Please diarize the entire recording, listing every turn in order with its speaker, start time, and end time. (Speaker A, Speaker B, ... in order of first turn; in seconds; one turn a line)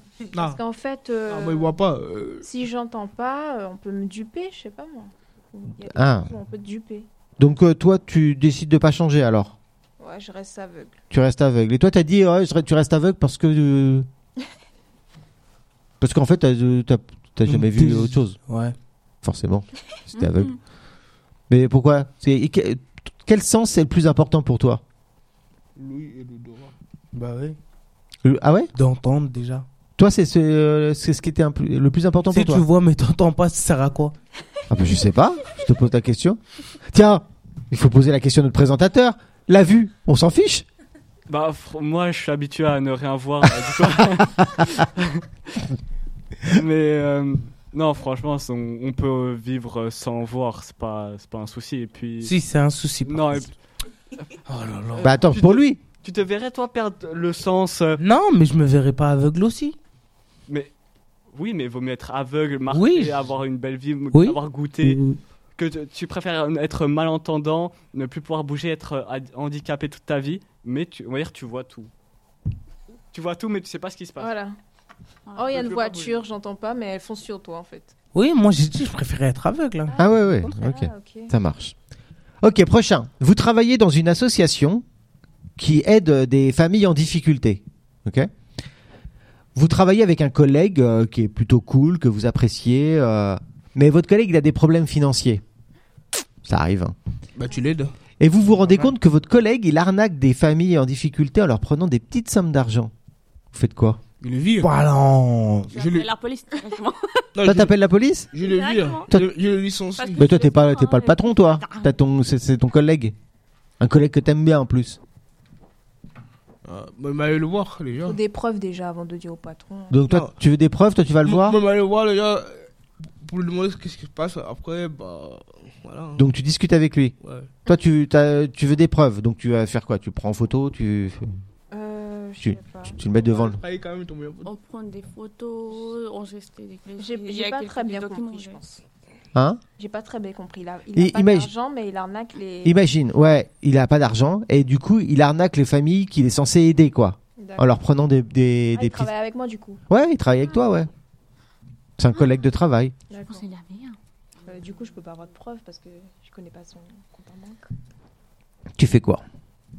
Speaker A: 0.3-1.7
Speaker B: 1.3-2.5
Speaker A: 2.4-7.1
Speaker C: 5.9-6.3
Speaker C: 7.4-9.6
Speaker A: 10.0-11.0
Speaker C: 11.1-14.1
Speaker C: 16.0-18.4
Speaker D: 17.5-18.7
Speaker C: 19.2-20.6
Speaker E: 20.2-20.5
Speaker C: 21.5-24.8
Speaker B: 25.8-26.7
Speaker D: 27.1-27.6
Speaker C: 28.2-28.7
Speaker D: 28.8-29.6
Speaker C: 30.0-32.6
Speaker D: 32.3-34.1
Speaker C: 34.7-40.6
Speaker F: 41.3-45.2
Speaker F: 46.5-52.4
Speaker D: 52.2-53.5
Speaker F: 53.0-53.5
Speaker D: 54.5-55.2
Speaker C: 55.0-55.8
Speaker F: 55.3-58.0
Speaker D: 58.0-59.8
Speaker F: 61.3-65.0
Speaker D: 62.7-63.2
Speaker D: 64.1-65.2
Speaker F: 65.6-71.9
Speaker F: 73.1-74.3
Speaker A: 74.2-74.6
Speaker E: 75.3-75.7
Speaker A: 75.3-77.9
Speaker D: 78.1-80.0
Speaker A: 79.9-81.3
Speaker C: 80.0-81.7
Speaker C: 82.4-84.8
Speaker C: 85.6-88.3
Speaker C: 89.5-95.4
Speaker C: 96.4-97.0
Speaker B: 97.3-97.9
Speaker C: 98.2-102.9
Speaker C: 103.5-104.0
Speaker B: 104.2-104.7
Speaker D: 104.6-105.7
Speaker E: 105.7-107.3
Speaker B: 105.7-106.1
Speaker B: 107.3-107.7
Speaker C: 107.4-108.3
Speaker B: 108.3-110.3
Speaker E: 108.4-109.1
Speaker E: 110.0-112.0
Speaker C: 110.2-113.1
Speaker C: 113.8-115.0
Speaker B: 116.7-118.2
Speaker A: 118.1-120.0
Speaker C: 119.9-121.6
Speaker B: 121.3-122.7
Speaker B: 123.2-126.3
Speaker C: 126.2-127.1
Speaker B: 127.2-127.5
Speaker C: 127.7-131.3
Speaker A: 131.7-133.0
Speaker C: 132.4-133.6
Speaker B: 133.2-134.5
Speaker E: 134.4-138.6
Speaker A: 137.0-138.8
Speaker C: 139.3-139.6
Speaker A: 139.8-142.8
Speaker C: 140.9-141.5
Speaker C: 142.6-149.1
Speaker A: 147.4-147.7
Speaker A: 148.7-149.8
Speaker C: 149.9-150.9
Speaker C: 152.0-152.9
Speaker A: 153.1-153.5
Speaker E: 153.2-154.0
Speaker A: 154.4-157.7
Speaker C: 158.8-159.2